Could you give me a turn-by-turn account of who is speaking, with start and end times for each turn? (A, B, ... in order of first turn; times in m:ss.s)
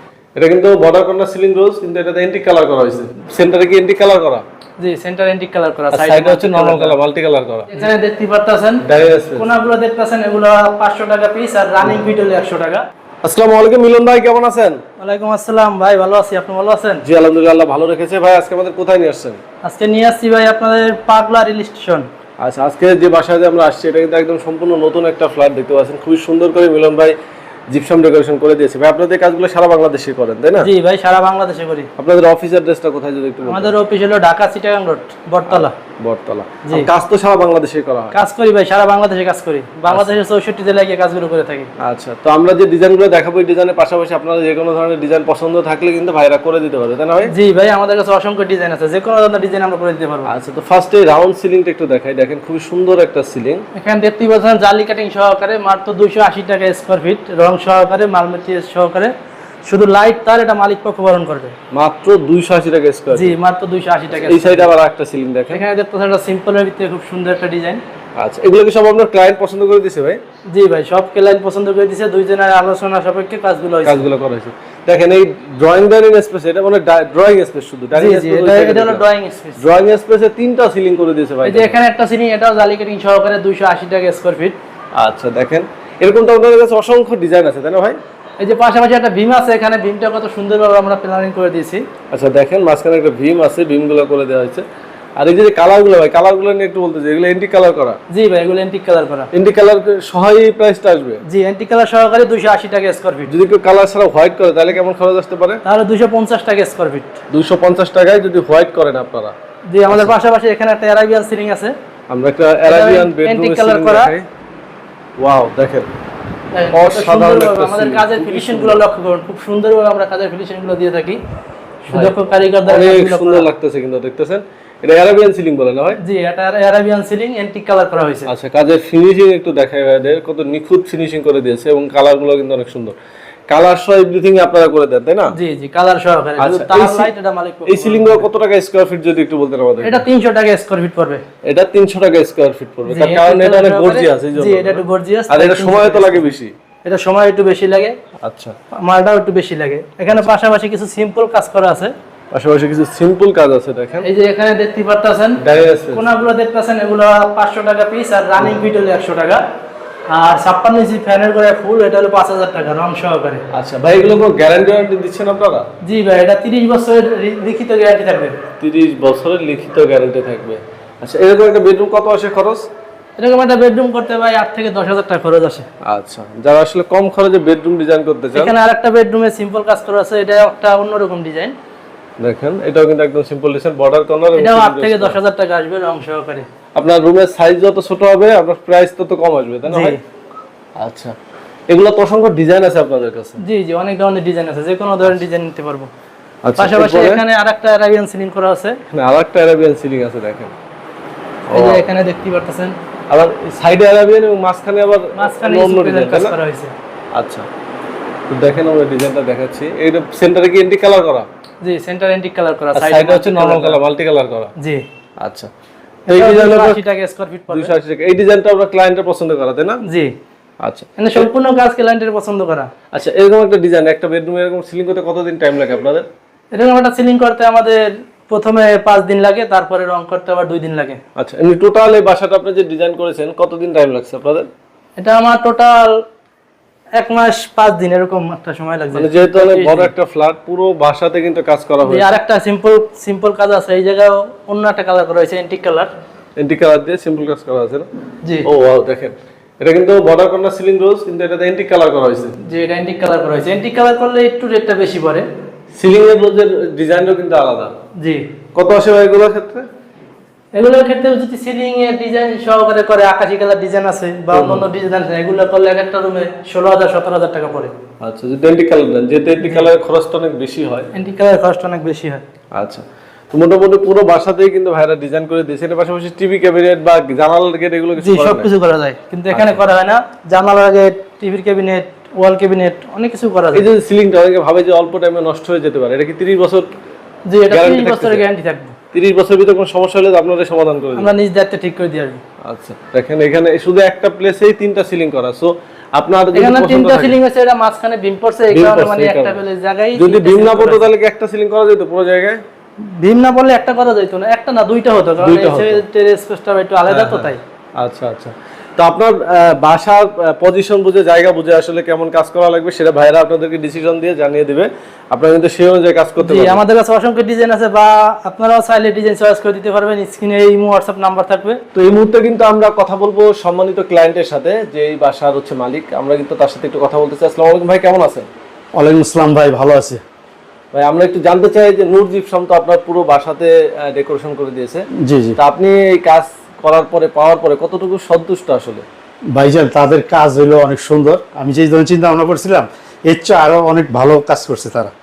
0:00.4-0:04.4 A
0:04.8-0:07.0 B
0:05.9-0:07.7 A
0:07.7-0:08.8 B
0:08.8-0:09.5 A
0:09.4-0:12.8 B
0:13.2-0:14.8 A
0:15.0-0:17.0 B
0:17.0-0:19.4 A
0:19.6-0:22.1 B
0:22.4-0:27.1 A
0:27.7-0:30.7 A
0:30.6-0:31.9 B
0:32.0-0:33.7 A
0:33.5-0:35.7 B
0:35.4-0:38.1 A
0:38.1-0:41.7 B
0:39.9-0:40.2 A
0:41.8-0:47.3 A
0:47.3-0:50.3 B
0:50.2-0:53.6 A
0:53.8-0:59.1 B
0:59.6-1:01.5 B
1:01.7-1:03.4 A
1:03.1-1:04.7 B
1:04.1-1:05.6 A
1:05.5-1:07.8 B
1:08.2-1:10.2 A
1:10.5-1:14.1 B
1:13.8-1:19.0 A
1:17.9-1:19.6 B
1:19.6-1:21.8 A
1:21.4-1:24.6 B
1:25.0-1:28.0 A
1:28.4-1:31.8 B
1:32.1-1:34.6 A
1:35.2-1:38.0 A
1:38.1-1:39.3 B
1:39.3-1:41.2 A
1:41.2-1:43.3 B
1:43.3-1:45.6 A
1:45.6-1:47.2 B
1:47.3-1:49.3 A
1:49.7-1:51.7 B
1:49.9-1:50.1 A
1:52.1-1:54.3 A
1:52.7-1:54.1 B
1:55.2-1:55.9 A
1:56.5-2:01.2 B
1:56.7-1:58.8 A
2:01.8-2:03.5 B
2:01.9-2:06.0 A
2:06.0-2:08.3 B
2:08.2-2:13.0 A
2:13.5-2:15.3 A
2:15.3-2:18.2 B
2:16.4-2:17.1 A
2:17.7-2:20.0 A
2:19.8-2:21.2 B
2:21.4-2:26.5 A
2:22.9-2:26.3 B
2:26.8-2:28.0 B
2:28.2-2:28.6 A
2:28.7-2:31.9 B
2:32.3-2:34.1 A
2:34.0-2:35.4 B
2:35.4-2:36.0 A
2:35.9-2:39.4 B
2:40.1-2:43.4 B
2:43.5-2:45.6 A
2:45.8-2:48.4 B
2:48.6-2:52.6 A
2:53.2-2:55.6 B
2:55.8-2:58.5 A
2:58.3-3:01.5 B
3:02.2-3:05.2 A
3:04.3-3:06.5 B
3:06.8-3:10.0 A
3:09.7-3:10.0 B
3:10.8-3:11.1 A
3:11.7-3:13.4 A
3:13.4-3:15.9 B
3:16.4-3:17.2 A
3:16.6-3:18.8 B
3:18.9-3:20.5 A
3:21.5-3:21.9 A
3:21.5-3:22.8 B
3:23.1-3:26.3 A
3:25.2-3:26.7 B
3:27.1-3:27.4 A
3:28.3-3:31.3 A
3:31.6-3:33.8 B
3:32.7-3:34.5 A
3:34.6-3:34.8 B
3:35.2-3:35.5 A
3:36.1-3:37.7 B
3:36.1-3:36.8 A
3:37.5-3:39.8 A
3:39.8-3:40.1 B
3:40.6-3:41.3 A
3:41.0-3:42.7 B
3:42.9-3:46.1 A
3:46.5-3:51.0 B
3:51.2-3:54.5 A
3:55.0-3:55.9 B
3:57.0-3:59.9 B
3:58.9-4:02.1 A
4:01.8-4:05.9 B
4:06.4-4:07.9 A
4:08.4-4:12.4 A
4:12.4-4:15.2 B
4:15.8-4:17.7 A
4:18.5-4:19.6 A
4:20.6-4:27.7 B
4:24.3-4:24.6 A
4:28.0-4:30.9 A
4:29.4-4:29.7 B
4:30.9-4:32.2 B
4:32.6-4:38.5 A
4:38.0-4:43.7 B
4:39.3-4:39.6 A
4:43.5-4:46.7 A
4:47.3-4:48.7 B
4:47.5-4:48.2 A
4:48.9-4:51.1 A
4:51.0-4:52.2 B
4:52.4-4:57.2 A
4:56.3-5:00.9 B
4:58.5-4:59.4 A
5:00.0-5:02.4 A
5:03.0-5:07.4 B
5:05.2-5:05.8 A
5:06.9-5:16.6 A
5:16.2-5:21.6 B
5:21.7-5:28.3 A
5:28.8-5:30.0 C
5:30.7-5:34.8 A
5:35.0-5:35.4 C
5:35.4-5:38.8 A
5:39.3-5:44.9 C